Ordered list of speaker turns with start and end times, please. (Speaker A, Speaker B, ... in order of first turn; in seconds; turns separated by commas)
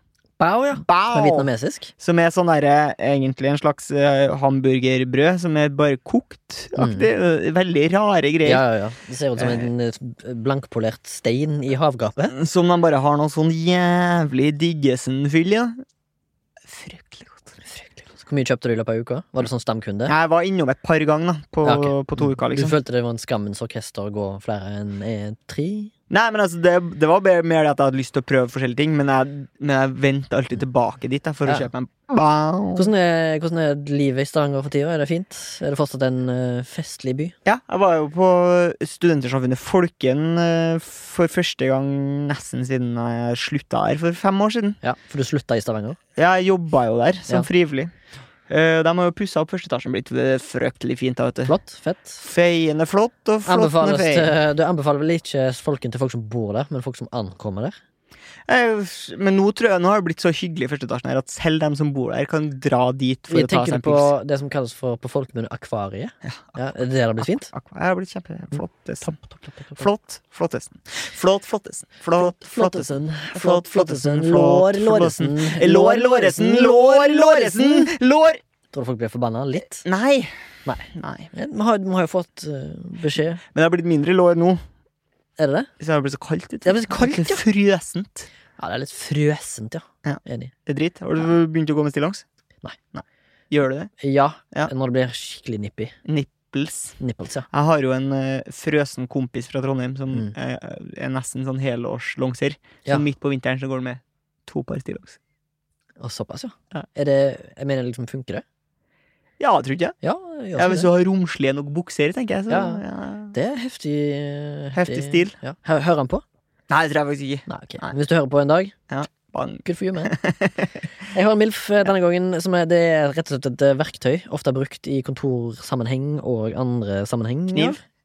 Speaker A: 0.4-1.9, Speaker B: 0.8-8.6, Speaker A: 6.8-7.1, Speaker A: 8.4-12.3, Speaker B: 9.4-9.7, Speaker B: 12.3-15.7, Speaker B: 16.7-17.8, Speaker A: 18.2-20.1, Speaker B: 20.1-22.8, Speaker A: 21.6-25.9, Speaker B: 26.1-32.9, Speaker A: 32.8-37.3, Speaker B: 37.4-44.8, Speaker A: 44.8-46.0, Speaker B: 46.1-47.9, Speaker B: 48.5-51.5, Speaker A: 51.5-52.2, Speaker B: 52.2-54.3, Speaker A: 53.5-57.8, Speaker B: 58.5-64.1, Speaker A: 63.3-67.5, Speaker B: 67.2-69.2, Speaker A: 69.0-69.8, Speaker B: 69.8-78.4, Speaker A: 72.2-77.9, Speaker A: 78.7-79.8, Speaker B: 79.8-80.3, Speaker A: 80.7-83.4, Speaker B: 80.9-81.3, Speaker B: 83.5-84.6, Speaker A: 85.4-85.7, Speaker B: 85.8-88.3, Speaker A: 86.6-87.4, Speaker A: 88.6-90.5, Speaker B: 90.0-92.2, Speaker B: 92.9-93.9, Speaker A: 94.0-95.9, Speaker B: 96.0-97.0, Speaker A: 97.0-97.5, Speaker B: 97.5-105.2, Speaker A: 106.0-108.4, Speaker B: 109.4-109.9, Speaker A: 110.0-110.9, Speaker B: 110.5-113.3, Speaker A: 112.5-116.2, Speaker B: 114.7-115.3, Speaker B: 116.7-117.9, Speaker A: 117.5-118.8, Speaker B: 118.9-120.8, Speaker A: 119.6-120.2, Speaker A: 121.1-127.8